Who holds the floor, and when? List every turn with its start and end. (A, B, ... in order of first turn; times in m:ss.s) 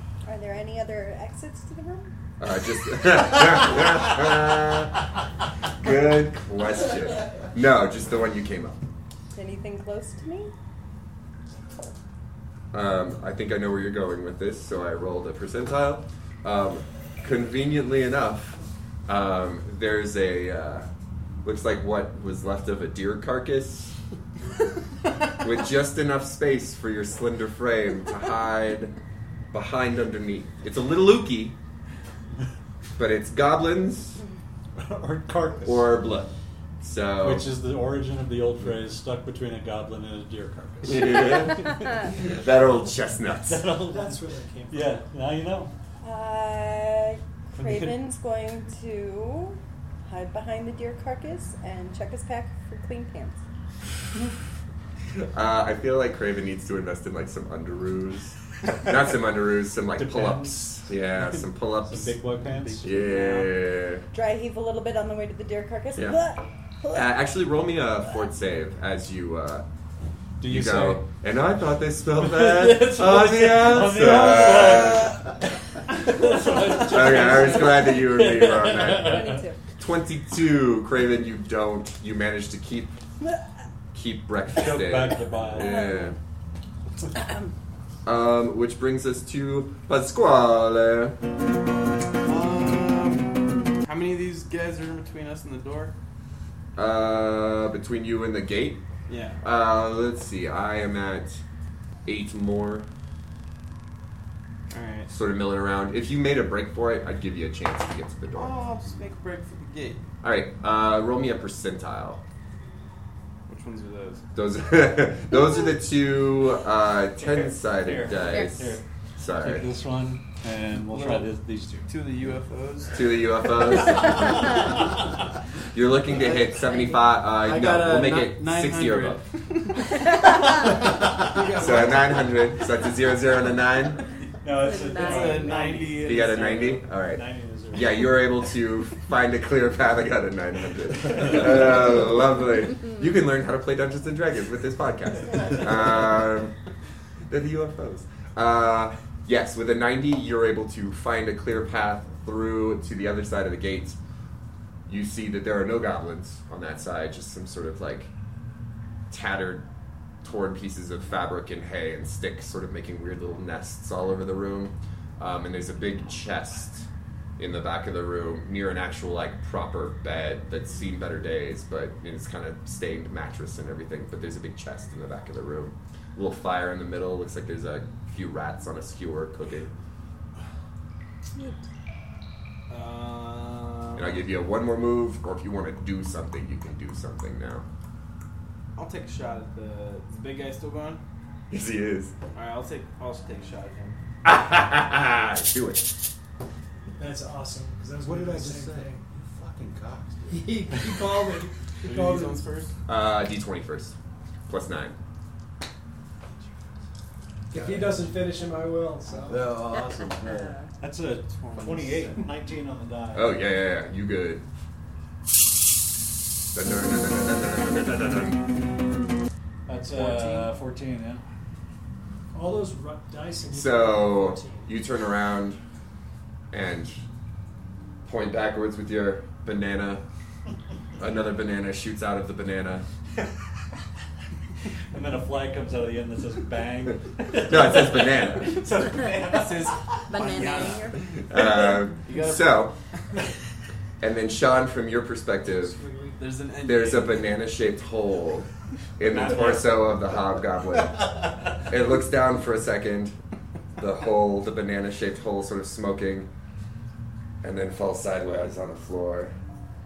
0:00.2-0:02.1 A
0:02.4-0:05.0 B
0:05.8-0:08.8 B
0:09.3-0:10.5 A
0:12.7-0:20.9 B
0:21.4-0:24.0 B
0:25.4-0:28.9 B
0:29.5-0:31.6 B
0:33.0-0:34.2 B
0:34.8-0:35.9 C
0:35.6-0:37.5 B
0:37.2-0:41.8 C
0:40.8-0:43.7 B
0:43.5-0:44.2 C
0:43.9-0:45.0 D
0:44.7-0:45.7 C
0:46.0-0:53.4 A
0:47.6-0:48.0 C
0:55.3-1:02.2 B
1:00.0-1:03.3 C
1:02.6-1:03.5 E
1:02.8-1:04.0 B
1:04.1-1:07.1 A
1:06.0-1:06.2 B
1:06.9-1:09.6 B
1:10.4-1:11.0 C
1:10.5-1:15.2 B
1:12.2-1:15.3 C
1:15.9-1:19.4 C
1:16.5-1:23.0 B
1:18.8-1:19.6 A
1:23.9-1:26.2 B
1:24.6-1:25.8 C
1:25.5-1:26.2 A
1:27.1-1:27.5 A
1:28.0-1:31.2 B
1:32.2-1:35.9 E
1:36.8-1:38.8 B
1:39.1-1:39.4 E
1:39.4-1:41.4 B
1:42.0-1:42.9 B
1:44.7-1:45.1 E
1:45.1-1:48.6 B
1:48.3-1:50.0 E
1:50.2-1:52.2 B
1:53.5-1:54.2 E
1:54.4-1:59.7 B
1:57.2-1:58.8 C
1:58.2-1:58.6 A
1:59.4-2:01.9 C
2:00.8-2:01.3 E
2:01.9-2:03.1 E
2:02.9-2:04.7 B
2:03.9-2:04.2 E
2:05.7-2:09.3 B
2:06.1-2:12.6 E
2:10.1-2:10.4 A
2:11.5-2:14.0 B
2:14.4-2:18.2 C
2:14.6-2:15.7 A
2:14.9-2:16.8 E
2:16.0-2:26.5 B
2:27.3-2:34.0 B
2:34.9-2:38.1 B
2:39.1-2:39.6 B
2:40.2-2:46.9 B
2:47.4-2:59.7 B
3:02.7-3:04.3 E
3:04.0-3:07.6 B
3:08.8-3:11.0 E
3:11.5-3:12.1 B
3:12.3-3:14.0 E
3:14.2-3:15.9 B
3:17.0-3:19.0 D
3:18.0-3:20.8 F
3:20.3-3:22.4 D
3:21.8-3:22.7 E
3:22.9-3:24.0 B
3:24.5-3:25.0 B
3:27.5-3:29.5 D
3:27.5-3:28.0 F
3:29.2-3:30.6 F
3:29.7-3:30.7 A
3:30.8-3:33.4 C
3:31.2-3:32.2 E
3:33.1-3:34.4 B
3:36.5-3:38.5 B
3:39.7-3:41.2 C
3:39.9-3:40.5 D
3:42.3-3:44.7 D
3:43.5-3:45.6 B
3:46.5-3:47.0 B
3:48.0-3:50.0 B
3:51.0-3:52.8 B
3:54.9-3:59.7 C
3:57.4-3:58.6 B
3:59.2-4:03.2 E
4:00.1-4:01.0 A
4:01.3-4:02.8 B
4:04.0-4:05.8 B
4:05.5-4:06.2 D
4:06.2-4:07.3 E
4:06.6-4:13.2 B
4:09.1-4:09.8 E
4:13.8-4:16.3 B
4:17.4-4:19.3 B